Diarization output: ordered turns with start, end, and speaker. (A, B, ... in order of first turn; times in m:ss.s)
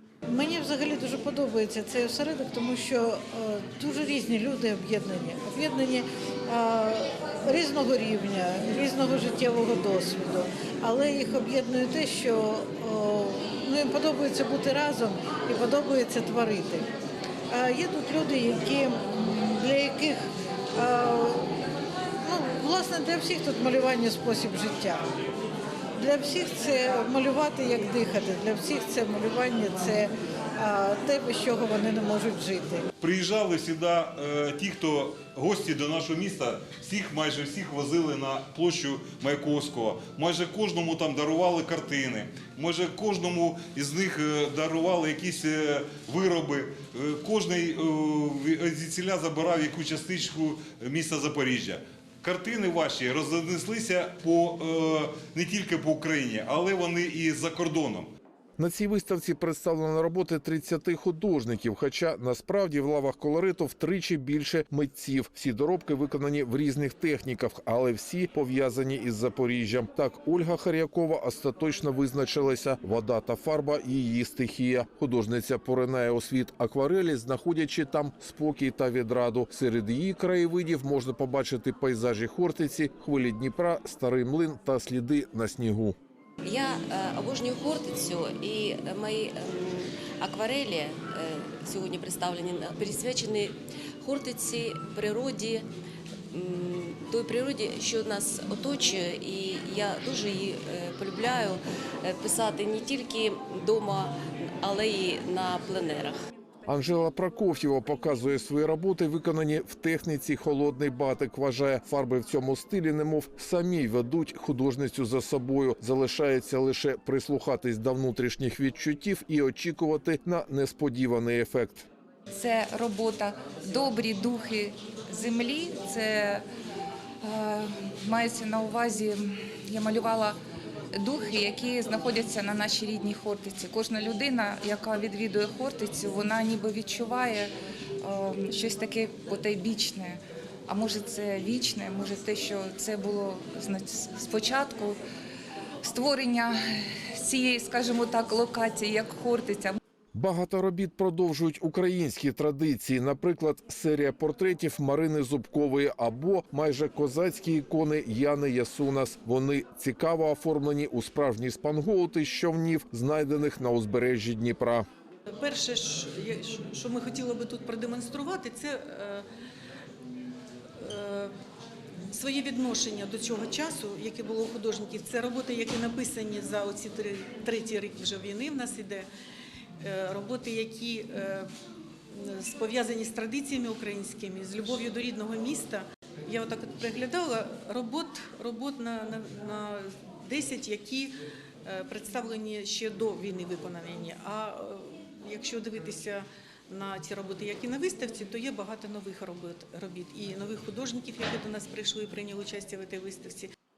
0:00.3-0:16.8 A
0:17.5-0:20.2 A
0:20.8-0:21.5 A
0:22.2-0:25.0 A
0:26.0-0:32.8 A
0:33.0-0:58.1 B
0:58.6-1:26.0 C
1:26.5-1:35.6 D
1:36.3-1:46.2 D
1:46.7-2:01.9 C
2:02.3-2:06.4 E
2:07.2-2:10.4 E
2:10.9-2:17.5 E
2:18.0-2:25.0 E
2:25.8-2:26.6 E
2:27.2-2:29.8 E
2:30.1-2:44.8 C
2:45.4-2:49.2 F
2:50.8-2:51.3 F
2:52.1-2:59.0 F
2:59.8-3:01.5 F
3:02.1-3:11.1 F
3:11.6-3:23.5 F